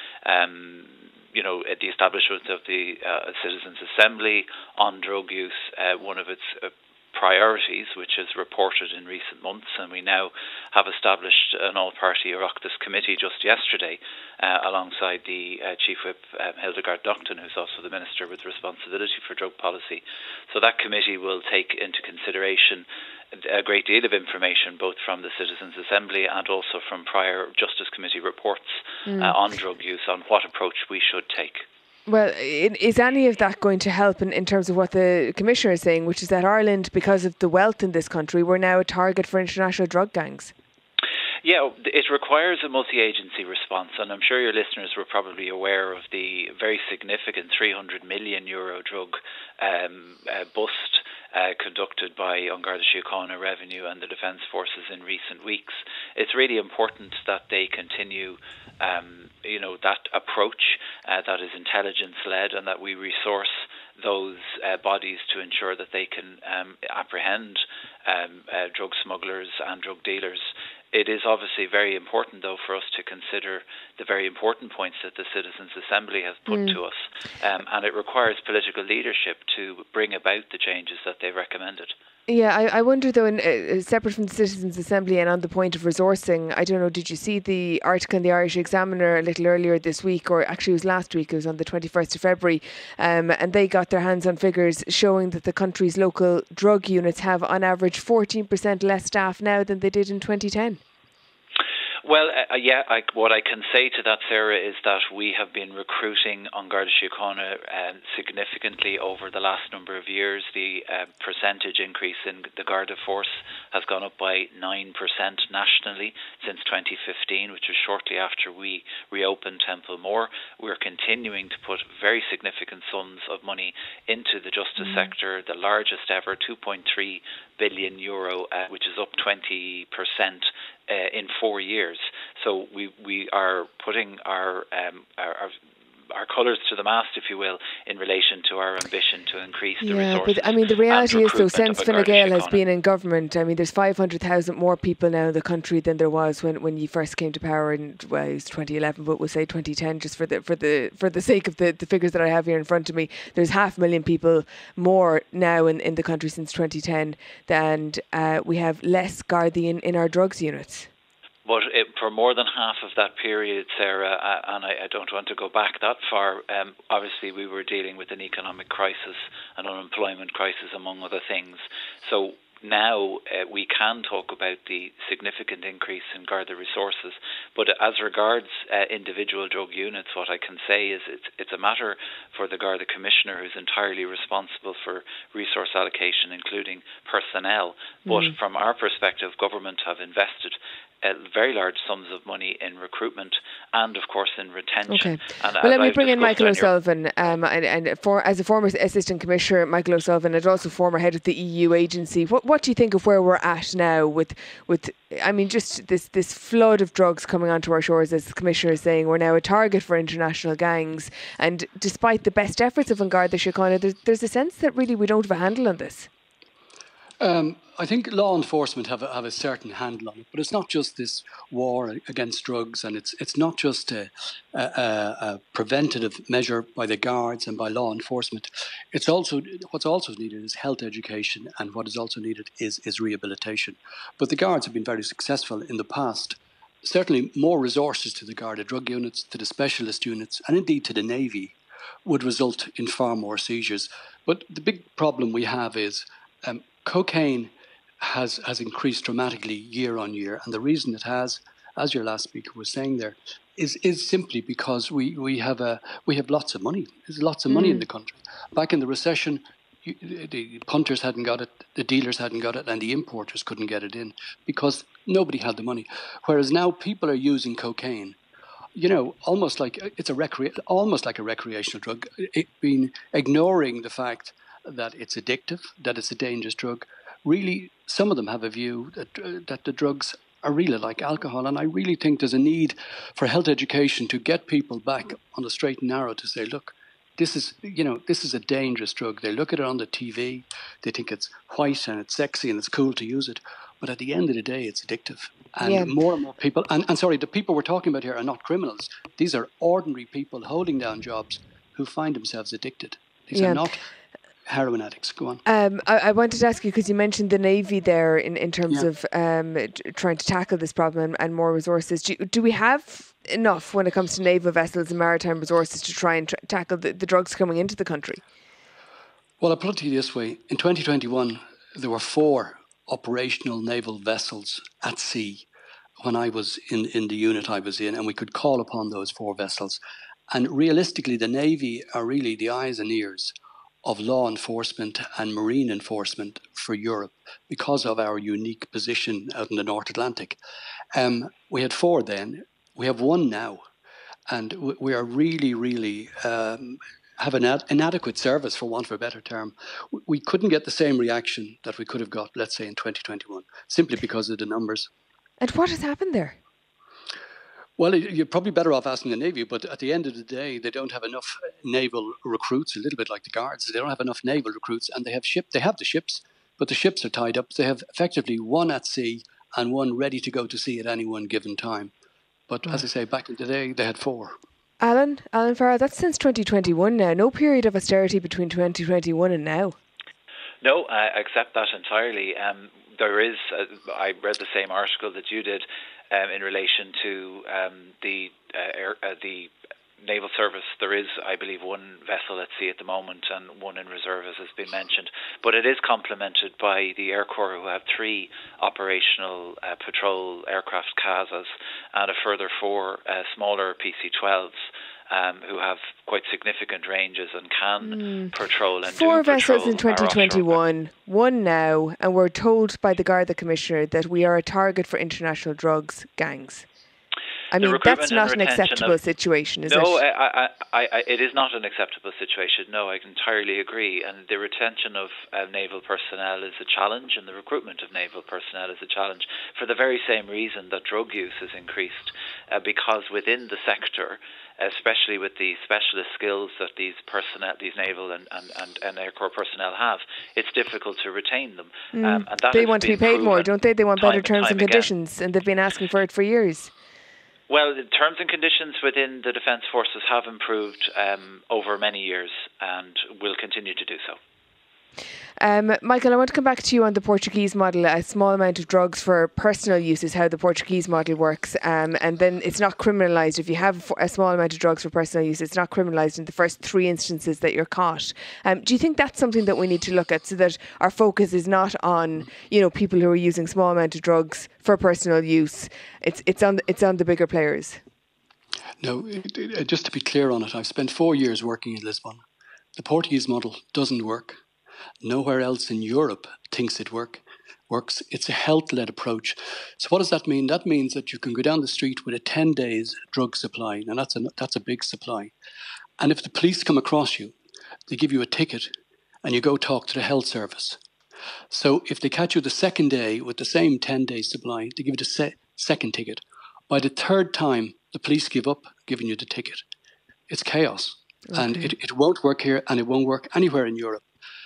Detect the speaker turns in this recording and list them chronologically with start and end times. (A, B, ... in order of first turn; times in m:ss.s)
0:00.2-0:31.6 A
0:29.1-0:29.4 B
0:32.1-0:40.5 B
0:41.4-1:21.9 A
1:16.5-1:16.8 B
1:22.3-1:40.8 B
1:42.0-2:15.6 A
2:04.8-2:05.1 B
2:16.1-2:22.6 A
2:19.8-2:40.9 B
2:41.4-3:16.7 A
3:08.1-3:08.3 B
3:14.9-3:36.1 B
3:37.2-4:28.2 C
4:17.5-4:17.9 B
4:28.8-5:03.8 C
4:55.6-4:55.9 B
5:03.3-5:03.6 B
5:04.4-5:05.4 C
5:05.4-5:18.2 B
5:19.4-5:25.5 C
5:26.0-5:29.8 C
5:30.3-5:40.4 C
5:40.9-5:43.6 C
5:44.3-5:54.9 C
5:55.4-5:56.4 B
5:57.8-6:11.9 C
6:12.5-6:14.4 C
6:14.8-6:19.8 B
6:20.6-6:50.6 A
6:47.9-6:48.3 B
6:48.8-6:56.7 B
6:57.5-7:00.0 B
6:57.6-6:59.0 A
6:59.6-7:24.9 A
7:21.9-7:26.7 B
7:27.5-7:34.2 A
7:35.4-7:57.8 B
7:58.8-8:02.2 C
8:02.8-8:04.4 C
8:05.0-8:15.3 C
8:16.0-8:17.3 C
8:17.9-8:18.7 C
8:19.2-8:20.8 C
8:21.5-8:29.6 C
8:30.3-8:34.0 C
8:31.3-8:31.7 B